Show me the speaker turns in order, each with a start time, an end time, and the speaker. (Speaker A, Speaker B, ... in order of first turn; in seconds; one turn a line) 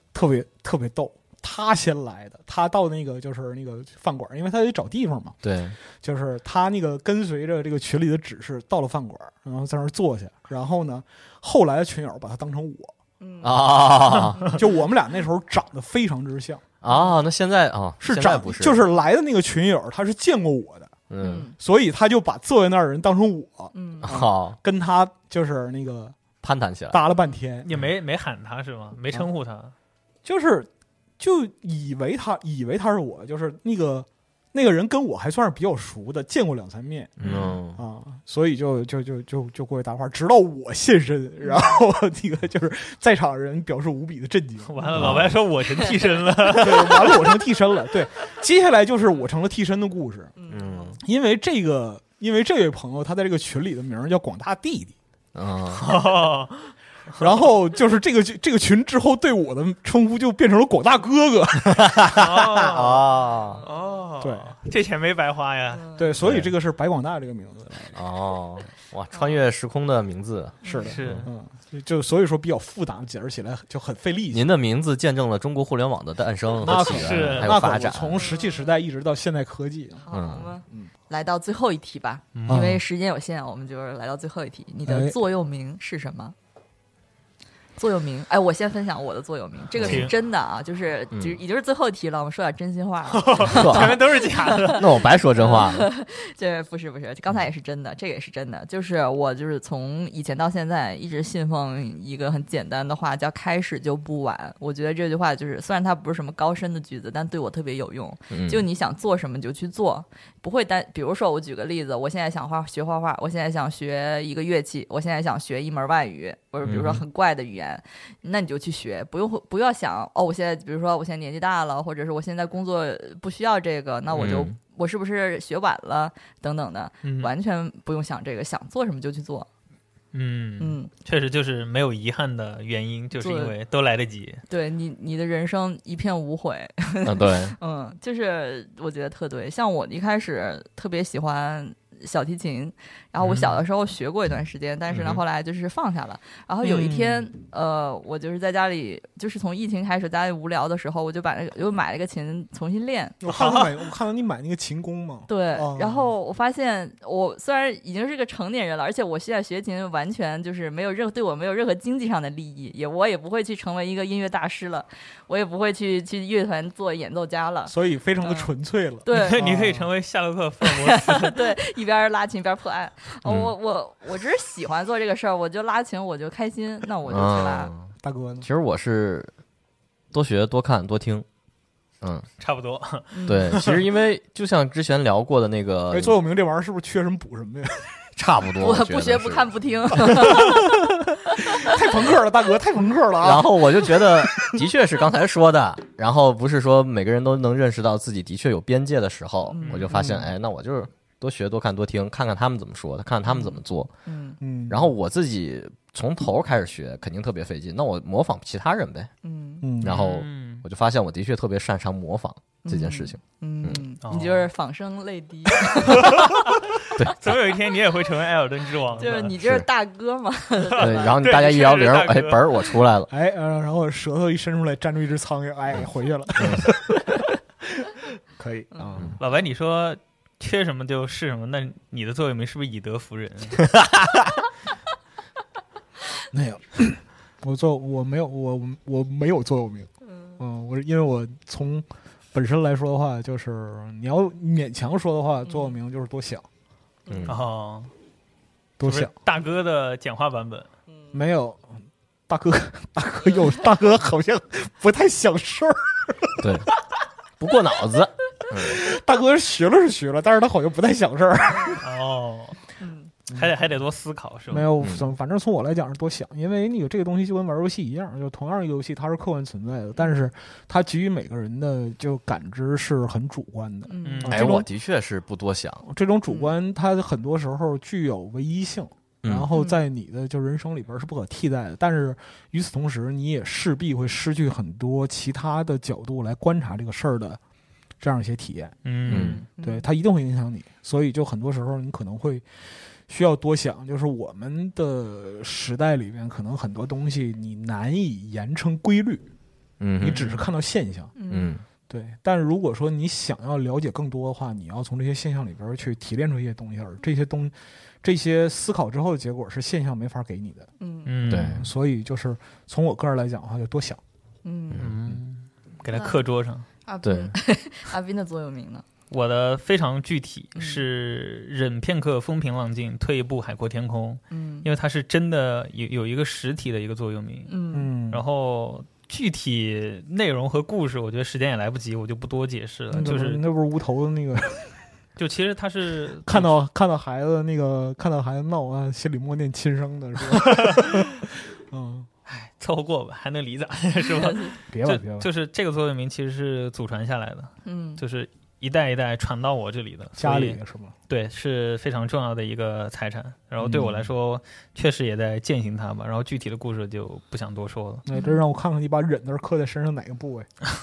Speaker A: 0.1-12.9
Speaker B: 5.4-5.8
Speaker C: 13.2-14.7
Speaker B: 13.4-14.5
Speaker A: 14.4-16.7
Speaker B: 16.8-18.8
Speaker C: 16.9-17.2
Speaker A: 18.0-21.0
Speaker B: 21.1-21.5
Speaker C: 21.2-21.6
Speaker A: 21.6-26.2
Speaker C: 23.7-24.2
Speaker B: 24.0-24.6
Speaker B: 26.4-27.0
Speaker A: 26.9-27.7
Speaker D: 27.6-29.7
Speaker A: 30.2-37.2
Speaker B: 37.2-37.8
Speaker D: 37.2-37.6
Speaker A: 37.7-45.3
Speaker D: 44.7-47.3
Speaker B: 44.9-45.3
Speaker A: 46.5-50.4
Speaker C: 50.4-51.0
Speaker B: 50.5-51.0
Speaker A: 51.0-55.0
Speaker B: 55.4-55.9
Speaker D: 55.8-57.2
Speaker A: 57.2-62.7
Speaker B: 61.7-63.6
Speaker D: 62.1-63.1
Speaker C: 63.2-64.0
Speaker D: 63.6-65.9
Speaker A: 64.2-64.5
Speaker C: 65.7-66.2
Speaker A: 66.0-68.0
Speaker B: 66.2-66.5
Speaker B: 68.0-71.3
Speaker C: 69.1-69.4
Speaker C: 70.6-71.0
Speaker A: 70.6-74.5
Speaker D: 70.9-71.3
Speaker B: 74.3-78.2
Speaker A: 76.6-80.1
Speaker D: 76.7-77.6
Speaker C: 78.2-78.7
Speaker C: 80.0-86.3
Speaker B: 80.1-80.5
Speaker D: 82.3-82.8
Speaker A: 82.5-82.8
Speaker A: 84.9-85.1
Speaker C: 87.8-129.5
Speaker B: 89.8-90.1
Speaker D: 89.8-90.1
Speaker B: 91.1-91.4
Speaker D: 93.1-95.2
Speaker B: 93.5-94.0
Speaker B: 94.8-95.9
Speaker B: 108.3-108.6
Speaker B: 116.6-117.0
Speaker B: 124.1-124.5
Speaker D: 127.0-127.3
Speaker D: 130.1-134.4
Speaker C: 130.6-130.9
Speaker C: 133.2-133.6
Speaker C: 134.5-153.2
Speaker B: 137.0-137.6
Speaker D: 143.2-143.6
Speaker B: 144.9-145.2
Speaker A: 146.6-147.3
Speaker A: 153.2-156.1
Speaker D: 153.2-153.8
Speaker C: 155.3-168.5
Speaker A: 167.7-169.9
Speaker C: 169.0-169.5
Speaker D: 169.1-171.6
Speaker C: 170.7-177.7
Speaker B: 173.2-173.5
Speaker B: 177.1-179.3
Speaker A: 178.0-178.5
Speaker B: 180.1-181.3
Speaker B: 182.0-182.3
Speaker D: 182.4-183.8
Speaker C: 183.1-183.6
Speaker B: 183.3-186.1
Speaker A: 185.9-188.0
Speaker B: 188.2-190.3
Speaker C: 188.6-190.7
Speaker A: 190.0-194.2
Speaker C: 191.3-191.9
Speaker B: 193.2-203.9
Speaker C: 199.5-199.9
Speaker D: 199.6-199.9
Speaker A: 199.9-200.3
Speaker C: 204.1-204.4
Speaker A: 204.4-204.9
Speaker B: 204.7-209.1
Speaker C: 209.2-209.7
Speaker A: 209.6-210.0
Speaker B: 209.8-213.8
Speaker D: 209.8-210.7
Speaker C: 212.6-216.3
Speaker D: 214.0-214.5
Speaker D: 215.7-219.3
Speaker B: 217.0-217.4
Speaker C: 219.0-221.2
Speaker B: 219.4-219.7
Speaker D: 220.6-222.8
Speaker B: 220.8-223.1
Speaker A: 223.1-229.2
Speaker B: 226.4-226.7
Speaker D: 229.2-233.6
Speaker B: 233.6-234.2
Speaker A: 236.3-246.4
Speaker C: 240.0-240.4
Speaker C: 245.5-245.7
Speaker C: 247.1-247.3
Speaker B: 247.1-247.4
Speaker D: 247.3-247.9
Speaker A: 248.8-249.1
Speaker D: 248.8-250.7
Speaker A: 251.1-256.6
Speaker B: 256.4-256.7
Speaker B: 257.4-258.9
Speaker A: 258.5-261.9
Speaker D: 261.8-262.6
Speaker C: 262.8-263.1
Speaker D: 263.3-264.7
Speaker A: 264.5-274.7
Speaker B: 264.8-265.1
Speaker C: 273.9-274.5
Speaker D: 274.1-274.5
Speaker B: 274.3-275.9
Speaker A: 275.9-287.4
Speaker B: 279.2-279.5
Speaker C: 279.5-279.8
Speaker A: 288.0-288.8
Speaker D: 288.9-289.4
Speaker C: 289.1-289.9
Speaker B: 289.1-289.4
Speaker A: 289.6-299.3
Speaker B: 299.8-300.2
Speaker A: 300.0-301.2
Speaker D: 300.0-300.5
Speaker C: 301.1-301.6
Speaker B: 301.3-301.6
Speaker A: 301.9-310.7
Speaker C: 310.8-311.2
Speaker D: 311.1-311.7
Speaker B: 311.3-311.7
Speaker A: 311.3-314.0
Speaker C: 314.4-314.9
Speaker B: 314.7-315.1
Speaker D: 314.8-316.7
Speaker C: 315.9-316.2
Speaker C: 316.9-318.8
Speaker B: 317.0-317.4
Speaker D: 319.1-327.5
Speaker C: 320.6-320.8
Speaker C: 324.3-324.7
Speaker C: 327.5-327.9
Speaker A: 327.7-328.2
Speaker D: 328.1-333.4
Speaker A: 332.9-334.8
Speaker D: 335.2-336.5
Speaker A: 336.2-342.1
Speaker D: 340.3-341.1
Speaker D: 342.3-350.6
Speaker C: 344.2-344.5
Speaker A: 344.7-345.3
Speaker C: 347.6-348.0
Speaker A: 350.2-350.9
Speaker D: 351.1-358.1
Speaker A: 353.6-354.1
Speaker A: 358.1-360.5
Speaker C: 358.1-358.4